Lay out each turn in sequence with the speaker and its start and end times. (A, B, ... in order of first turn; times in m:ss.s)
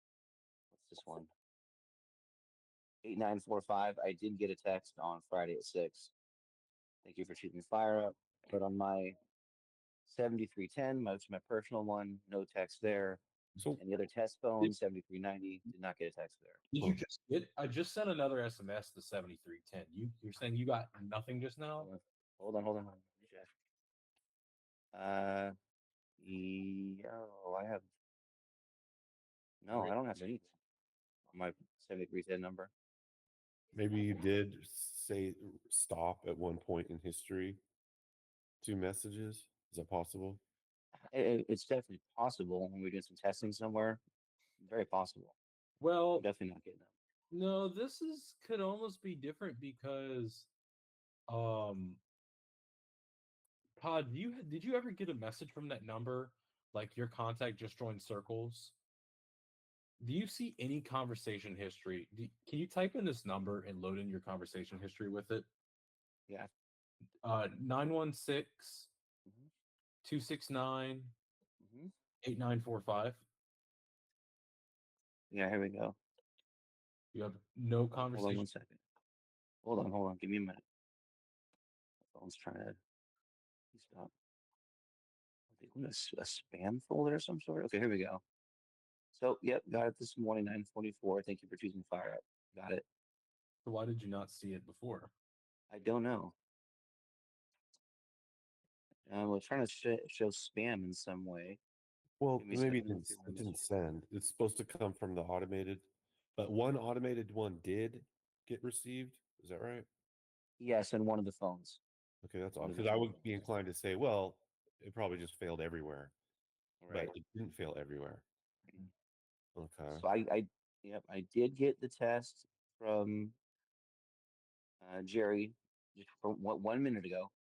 0:00.7-0:01.3 A
0:03.0-0:06.1 A
0:07.0-0:09.2 A
0:10.1-0:13.2 A
0:13.8-0:16.6 A
0:16.7-0:21.9 B
0:21.8-0:23.5 A
0:24.9-0:25.5 A
0:26.2-0:27.9 A
0:29.6-0:30.5 A
0:31.3-0:32.7 A
0:33.7-0:37.6 C
0:38.6-0:40.4 C
0:41.1-0:44.0 A
0:44.6-0:45.4 A
0:45.8-0:46.3 B
0:46.1-0:46.9 A
0:47.3-0:50.5 B
0:51.3-0:52.0 B
0:53.8-0:58.7 B
1:00.0-1:05.5 B
1:07.2-1:08.9 B
1:10.0-1:11.1 B
1:11.6-1:11.9 A
1:12.2-1:13.2 B
1:15.3-1:16.0 A
1:17.1-1:18.5 B
1:18.0-1:18.8 A
1:19.6-1:20.6 A
1:22.1-1:22.8 A
1:23.7-1:24.1 A
1:25.6-1:28.2 A
1:29.1-1:32.8 A
1:33.6-1:35.1 B
1:35.7-1:36.3 A
1:39.1-1:41.6 A
1:42.2-1:49.9 C
1:42.4-1:43.6 A
1:50.6-1:51.8 A
1:52.2-1:56.1 C
1:52.6-1:53.4 A
1:56.8-1:57.1 A
1:56.9-1:58.2 C
1:59.6-2:00.0 C
1:59.9-2:03.3 A
2:04.8-2:07.3 A